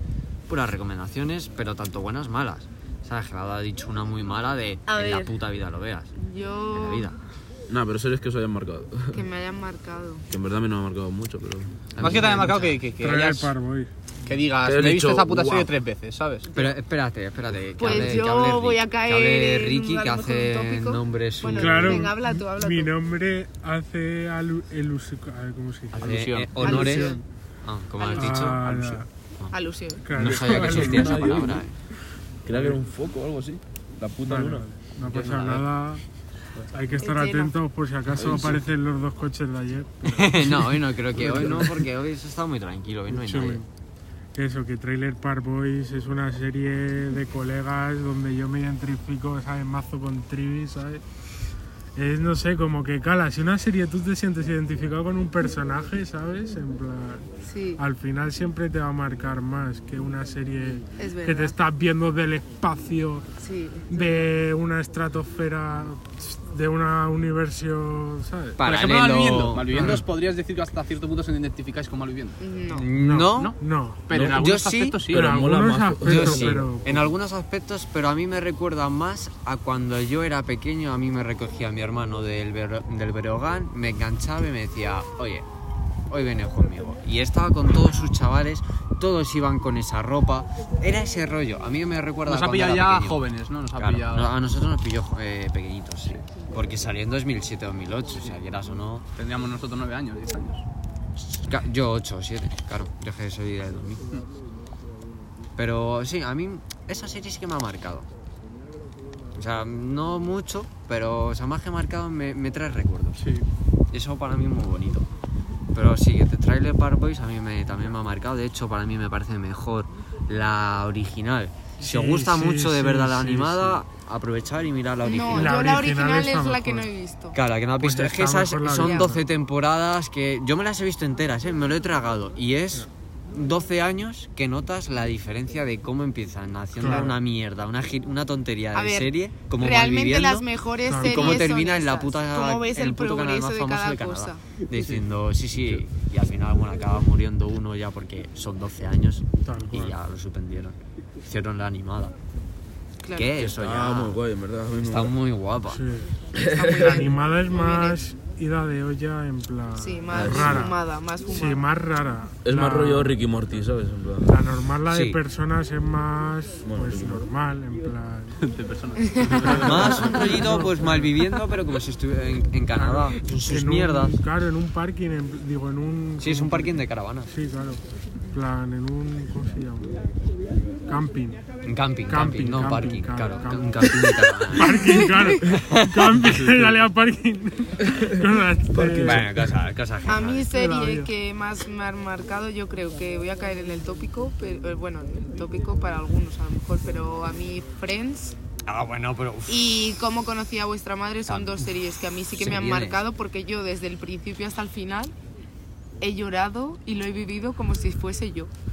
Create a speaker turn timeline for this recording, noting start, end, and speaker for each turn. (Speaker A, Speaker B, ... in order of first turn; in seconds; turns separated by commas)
Speaker A: 0.5-6.1, Speaker B: 4.9-5.3, Speaker B: 6.2-7.1, Speaker A: 6.7-7.2, Speaker C: 7.7-9.2, Speaker B: 9.1-10.3, Speaker C: 10.3-11.8, Speaker A: 11.9-12.8, Speaker D: 12.0-13.5, Speaker E: 13.0-13.9, Speaker D: 14.2-16.5, Speaker C: 14.6-15.7, Speaker A: 16.5-22.1, Speaker B: 17.8-23.0, Speaker E: 21.5-27.2, Speaker A: 25.9-28.7, Speaker D: 25.9-26.8, Speaker B: 26.6-27.2, Speaker B: 28.0-28.4, Speaker E: 28.2-29.1, Speaker D: 28.6-29.0, Speaker B: 29.5-30.1, Speaker E: 30.0-31.5, Speaker A: 30.1-31.8, Speaker C: 30.2-31.6, Speaker C: 32.5-34.7, Speaker E: 32.5-32.8, Speaker E: 34.2-36.0, Speaker D: 35.0-35.6, Speaker E: 36.7-41.8, Speaker B: 37.0-37.5, Speaker C: 38.1-38.6, Speaker A: 40.1-43.6, Speaker C: 41.2-41.5, Speaker E: 43.1-43.7, Speaker E: 44.4-51.0, Speaker E: 52.0-57.3, Speaker B: 57.4-57.8, Speaker E: 57.8-63.3, Speaker B: 61.0-61.6, Speaker B: 63.4-64.2, Speaker E: 63.9-68.6, Speaker A: 68.6-70.0, Speaker D: 68.6-72.4, Speaker E: 69.7-70.0, Speaker B: 72.4-72.9, Speaker A: 72.7-73.5, Speaker E: 72.8-74.0, Speaker D: 74.1-75.3, Speaker C: 74.1-74.4, Speaker A: 74.2-75.0, Speaker C: 75.1-76.7, Speaker E: 75.1-77.1, Speaker A: 76.0-85.5, Speaker A: 86.1-93.2, Speaker D: 92.3-94.4, Speaker A: 93.8-99.0, Speaker D: 99.2-100.7, Speaker A: 101.3-104.2, Speaker A: 105.6-108.1, Speaker A: 109.3-113.4, Speaker E: 113.2-113.5, Speaker A: 113.9-115.1, Speaker A: 115.7-125.8, Speaker E: 121.8-123.8, Speaker B: 125.0-127.4, Speaker E: 125.2-126.9, Speaker A: 127.3-140.5, Speaker E: 127.8-129.2, Speaker B: 128.8-129.2, Speaker E: 136.8-137.2, Speaker B: 138.7-144.4, Speaker E: 140.9-141.4, Speaker A: 141.0-152.1, Speaker E: 149.4-150.0, Speaker B: 153.0-153.5, Speaker A: 153.1-154.2, Speaker C: 153.6-155.1, Speaker A: 154.8-155.8, Speaker E: 155.7-160.8, Speaker C: 156.4-157.1, Speaker B: 157.5-158.0, Speaker B: 159.8-161.7, Speaker C: 160.1-160.8, Speaker E: 161.3-163.2, Speaker C: 162.4-164.4, Speaker E: 164.2-168.4, Speaker A: 164.9-165.2, Speaker C: 166.7-167.3, Speaker D: 168.4-170.2, Speaker B: 169.0-170.3, Speaker A: 169.5-174.2, Speaker E: 169.7-171.2, Speaker E: 172.7-176.8, Speaker A: 176.2-177.3, Speaker E: 177.3-177.8, Speaker E: 178.3-180.0, Speaker E: 180.9-181.4, Speaker A: 181.6-186.7, Speaker E: 182.1-189.3, Speaker B: 184.6-185.6, Speaker C: 187.9-189.5, Speaker A: 189.0-190.5, Speaker B: 190.1-198.4, Speaker E: 190.5-191.1, Speaker A: 198.7-199.9, Speaker B: 199.5-205.1, Speaker A: 201.3-201.7, Speaker A: 202.3-203.0, Speaker B: 206.0-208.5